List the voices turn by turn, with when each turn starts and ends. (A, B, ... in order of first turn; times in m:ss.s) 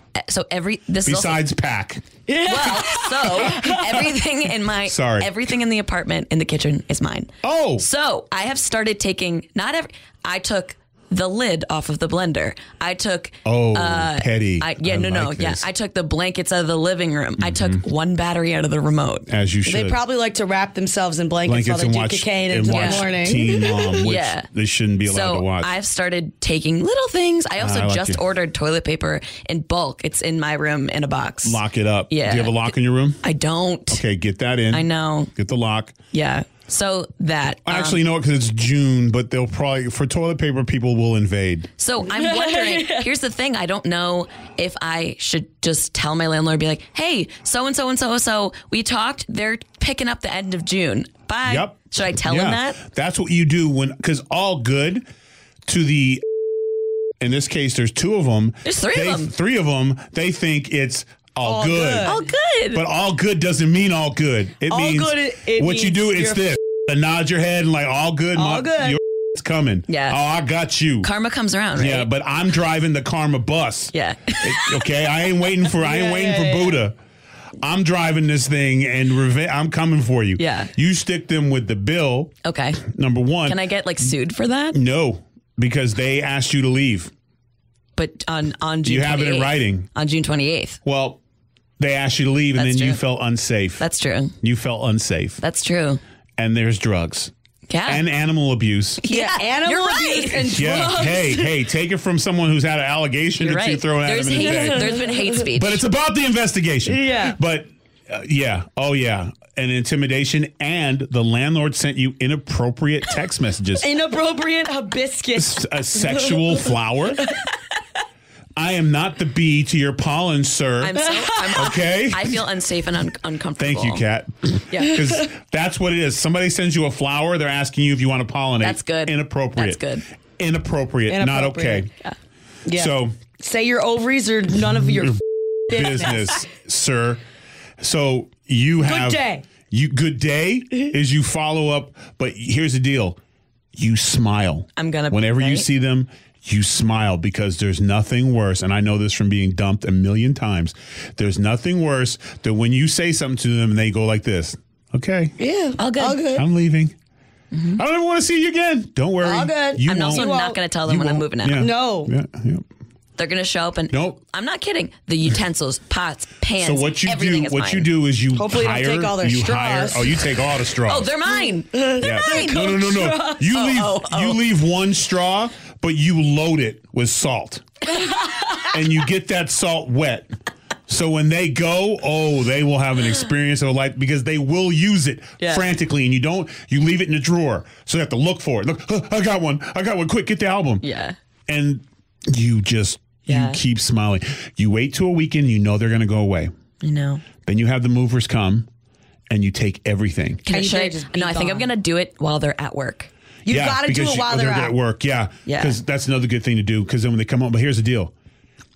0:00.2-0:01.4 A
0:01.0-0:02.0 B
0:02.3-0:04.0 C
0:02.4-0:19.3 A
0:04.9-0:05.3 B
0:07.4-0:07.8 B
0:13.4-0:15.6 B
0:17.4-0:17.8 B
0:19.3-0:20.0 B
0:19.7-0:24.0 C
0:21.4-0:25.7 B
0:22.7-0:23.1 A
0:23.9-0:24.5 A
0:25.1-0:34.0 A
0:27.6-0:28.2 B
0:31.4-0:33.2 B
0:33.9-0:36.0 B
0:34.7-0:35.3 A
0:36.1-0:38.0 A
0:37.7-0:41.7 B
0:41.8-0:52.8 A
0:42.1-0:43.1 C
0:51.5-0:55.1 B
0:55.7-0:56.2 B
0:57.2-1:02.2 B
0:58.6-0:59.3 A
1:01.4-1:02.2 C
1:02.0-1:02.8 A
1:02.7-1:11.1 B
1:04.6-1:06.4 C
1:08.4-1:09.0 C
1:09.9-1:10.2 A
1:11.0-1:12.1 A
1:11.8-1:17.0 B
1:13.9-1:15.0 A
1:15.8-1:16.8 C
1:17.6-1:22.3 B
1:20.4-1:20.7 A
1:22.4-1:22.8 A
1:22.8-1:23.6 B
1:23.4-1:24.8 A
1:24.7-1:27.1 B
1:28.0-1:30.8 A
1:28.8-1:29.9 B
1:30.8-1:31.2 B
1:31.8-1:33.8 B
1:32.6-1:33.0 A
1:33.8-1:34.4 A
1:34.4-1:35.4 B
1:35.4-1:36.0 A
1:36.4-1:37.3 B
1:37.7-1:38.0 A
1:37.9-1:39.0 B
1:39.0-1:41.2 A
1:39.1-1:41.4 C
1:40.5-1:53.9 B
1:43.4-1:45.8 A
1:44.4-1:45.3 C
1:46.9-1:47.4 C
1:53.8-1:56.7 C
1:55.4-1:57.3 B
1:58.6-2:02.4 B
2:00.8-2:04.0 A
2:01.2-2:01.4 C
2:03.6-2:09.8 B
2:04.7-2:05.0 A
2:08.6-2:10.0 A
2:10.4-2:11.9 B
2:11.1-2:11.9 C
2:12.7-2:16.4 C
2:12.7-2:13.2 B
2:14.8-2:17.2 B
2:17.8-2:23.2 B
2:18.8-2:19.4 C
2:23.7-2:35.4 B
2:24.8-2:25.7 A
2:35.4-2:36.5 C
2:35.8-2:36.3 A
2:36.3-2:36.9 B
2:37.5-2:37.8 A
2:37.8-2:42.6 B
2:39.2-2:40.6 C
2:39.8-2:41.7 A
2:41.5-2:42.1 C
2:43.2-2:47.9 A
2:43.9-2:44.2 B
2:46.6-2:51.1 B
2:48.3-2:50.2 C
2:50.8-2:52.8 A
2:51.3-2:53.6 C
2:52.0-2:57.6 B
2:53.4-2:54.4 A
2:58.0-2:58.7 C
2:58.7-3:00.3 B
3:00.9-3:10.8 B
3:05.4-3:05.7 A
3:10.8-3:11.2 A
3:11.5-3:16.5 B
3:13.3-3:13.6 A
3:16.8-3:17.2 A
3:17.4-3:18.7 B
3:19.3-3:20.4 B
3:20.4-3:23.1 A
3:20.5-3:21.7 C
3:23.5-3:24.7 C
3:23.5-3:28.1 B
3:25.5-3:25.8 A